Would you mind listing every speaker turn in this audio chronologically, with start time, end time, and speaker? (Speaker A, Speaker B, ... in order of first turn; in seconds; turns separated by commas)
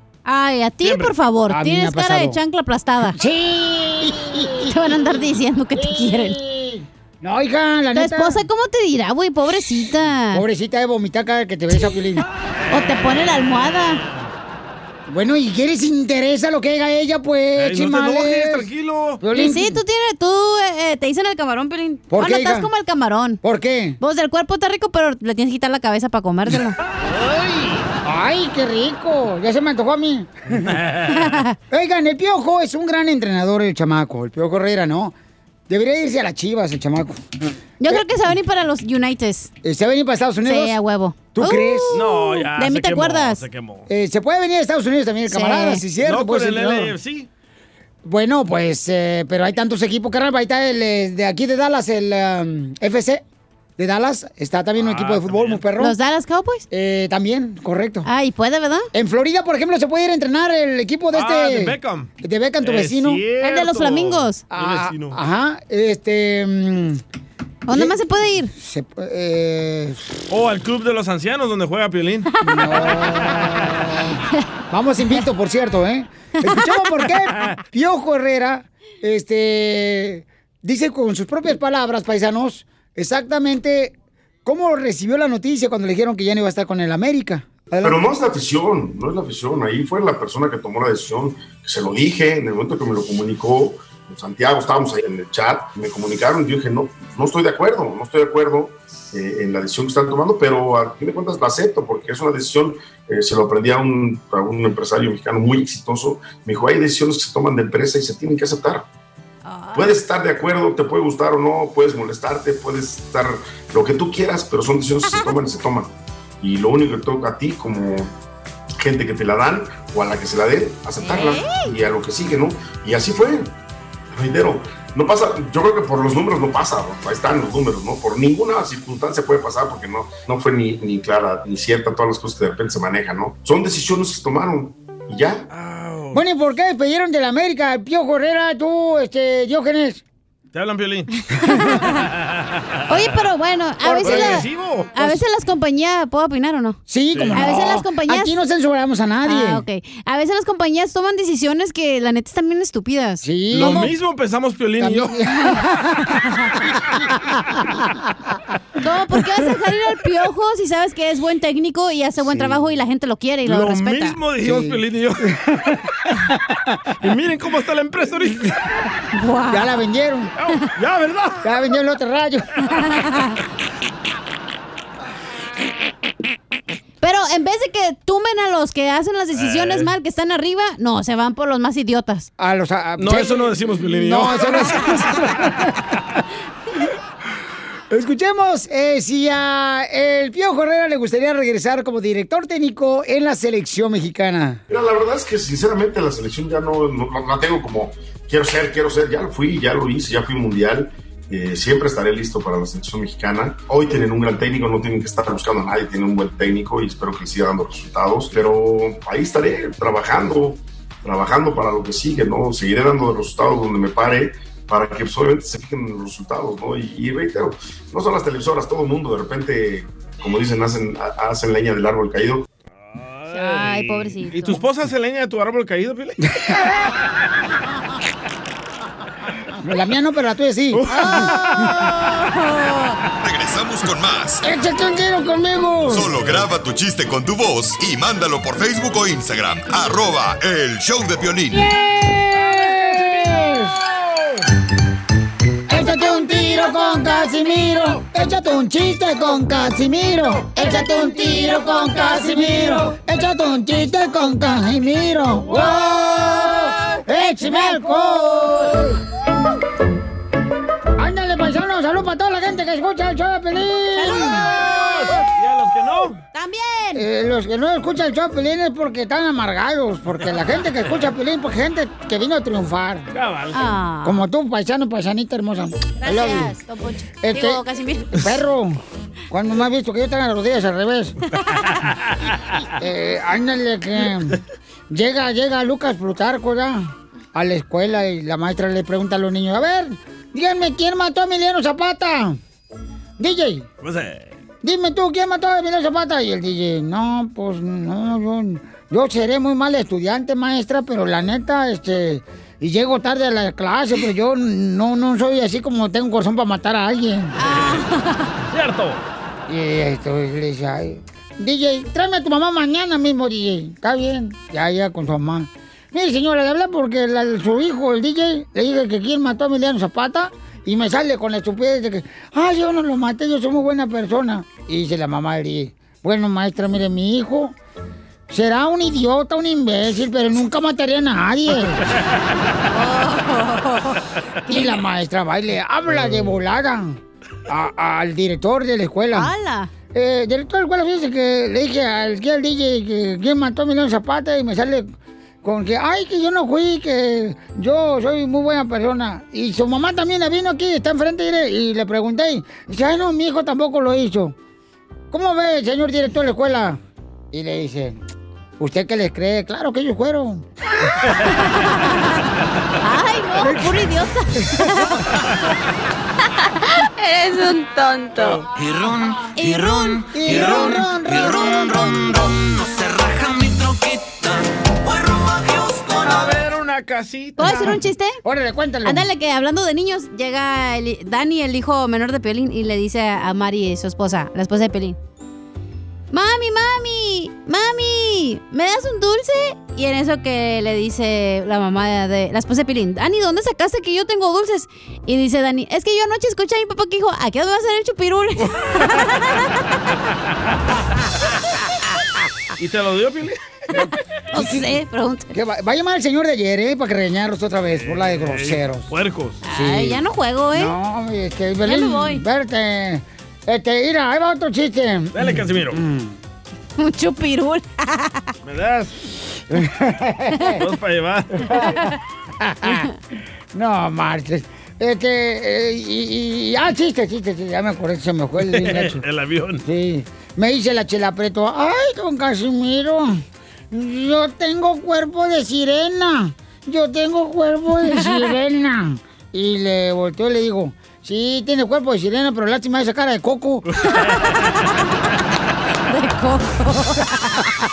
Speaker A: 0.2-3.2, Speaker B: 0.8-1.1, Speaker C: 1.5-2.4, Speaker C: 3.1-8.4, Speaker A: 4.5-6.4, Speaker A: 7.9-10.4, Speaker C: 10.3-12.2, Speaker A: 12.7-14.0, Speaker C: 15.1-18.7, Speaker B: 17.6-19.2, Speaker C: 19.2-19.8, Speaker A: 19.3-23.4, Speaker C: 22.1-22.7, Speaker C: 23.4-24.0, Speaker A: 24.0-26.8, Speaker B: 27.0-27.9, Speaker C: 28.0-30.7, Speaker B: 30.6-31.4, Speaker A: 31.1-31.6, Speaker C: 31.7-35.1, Speaker C: 35.7-37.2, Speaker A: 37.8-39.5, Speaker C: 39.6-40.8, Speaker A: 40.4-43.4, Speaker C: 41.3-42.1, Speaker B: 41.9-43.9, Speaker C: 43.9-47.0, Speaker A: 45.3-45.8, Speaker B: 46.0-47.3, Speaker C: 48.0-53.2, Speaker C: 53.8-56.0, Speaker B: 54.8-55.6, Speaker A: 55.8-56.6, Speaker C: 56.7-58.1, Speaker A: 58.0-58.9, Speaker C: 58.9-63.2, Speaker B: 61.1-62.1, Speaker B: 62.6-65.2, Speaker A: 63.4-64.4, Speaker C: 64.5-67.0, Speaker A: 67.7-68.5, Speaker C: 67.7-68.0, Speaker C: 68.5-70.2, Speaker B: 70.3-72.3, Speaker C: 72.4-88.0, Speaker D: 87.8-108.9, Speaker A: 109.4-110.0, Speaker D: 109.7-118.1, Speaker D: 118.8-123.5, Speaker A: 121.0-121.7, Speaker D: 124.1-135.4, Speaker B: 135.5-136.2, Speaker C: 136.1-140.0, Speaker B: 140.5-141.1, Speaker A: 141.3-142.0, Speaker B: 142.0-142.4, Speaker A: 142.9-146.8, Speaker C: 143.8-144.4, Speaker B: 144.0-144.9, Speaker C: 146.9-149.6, Speaker B: 147.1-147.4, Speaker A: 147.3-148.3, Speaker A: 149.2-153.7, Speaker C: 153.2-153.9, Speaker B: 153.5-155.2, Speaker C: 154.8-155.8, Speaker C: 157.0-158.0, Speaker A: 158.8-164.2, Speaker C: 162.2-162.6, Speaker B: 163.4-165.3, Speaker C: 164.4-165.7, Speaker B: 167.0-168.5, Speaker A: 169.1-169.7, Speaker C: 169.5-170.3, Speaker B: 170.4-171.5, Speaker C: 171.4-172.5, Speaker A: 172.8-173.3, Speaker A: 177.0-182.3, Speaker B: 179.3-179.9, Speaker C: 182.4-185.7, Speaker B: 183.0-184.9, Speaker C: 187.9-194.6, Speaker D: 194.7-222.4, Speaker B: 222.9-226.3, Speaker A: 223.3-224.6, Speaker C: 226.5-226.7, Speaker C: 229.6-231.3, Speaker B: 230.7-231.9, Speaker A: 230.9-231.3, Speaker A: 231.9-233.0, Speaker E: 233.2-234.4, Speaker C: 234.4-236.1, Speaker E: 235.9-241.7, Speaker C: 241.5-243.8, Speaker B: 242.6-244.4, Speaker C: 245.7-259.0, Speaker A: 256.2-258.2, Speaker C: 261.0-264.5, Speaker A: 263.9-265.2, Speaker B: 264.7-266.2, Speaker A: 266.3-267.0, Speaker C: 266.9-273.1, Speaker B: 273.1-273.7, Speaker A: 273.5-274.2, Speaker C: 274.0-276.6, Speaker A: 276.0-278.2, Speaker C: 277.2-281.1, Speaker B: 281.9-282.3, Speaker C: 282.8-284.4, Speaker C: 284.9-292.4, Speaker C: 293.2-293.6, Speaker B: 293.8-294.3, Speaker C: 294.6-307.4, Speaker A: 307.4-308.3, Speaker B: 307.4-307.8, Speaker B: 308.5-309.0, Speaker C: 309.5-327.6, Speaker C: 328.3-331.8, Speaker A: 332.7-334.8, Speaker C: 334.5-339.3, Speaker A: 339.1-339.7, Speaker C: 339.9-354.4, Speaker C: 355.1-356.8, Speaker C: 357.3-358.0, Speaker C: 358.6-360.9, Speaker A: 361.3-362.2, Speaker A: 362.8-365.1, Speaker C: 363.4-363.7, Speaker A: 366.6-368.4, Speaker F: 368.5-376.4, Speaker A: 369.4-370.0, Speaker C: 370.1-372.1, Speaker B: 376.0-377.7, Speaker A: 377.4-378.2, Speaker C: 378.2-379.1, Speaker A: 378.8-385.0, Speaker A: 386.1-399.6, Speaker B: 398.4-398.8, Speaker B: 402.6-403.4, Speaker C: 403.7-404.7, Speaker A: 404.3-405.3, Speaker C: 405.3-408.9, Speaker B: 407.8-409.4, Speaker A: 409.4-410.7, Speaker C: 409.4-410.0, Speaker C: 410.5-416.2, Speaker A: 411.6-412.2, Speaker B: 415.1-415.8, Speaker A: 416.8-418.3, Speaker B: 418.4-419.0, Speaker C: 419.5-420.6, Speaker B: 420.6-421.6, Speaker C: 421.4-421.8, Speaker C: 422.4-422.9, Speaker C: 423.5-429.0, Speaker B: 428.5-429.6, Speaker C: 429.6-443.6, Speaker A: 437.9-438.3, Speaker B: 443.7-444.4, Speaker A: 444.0-444.5, Speaker A: 445.9-447.4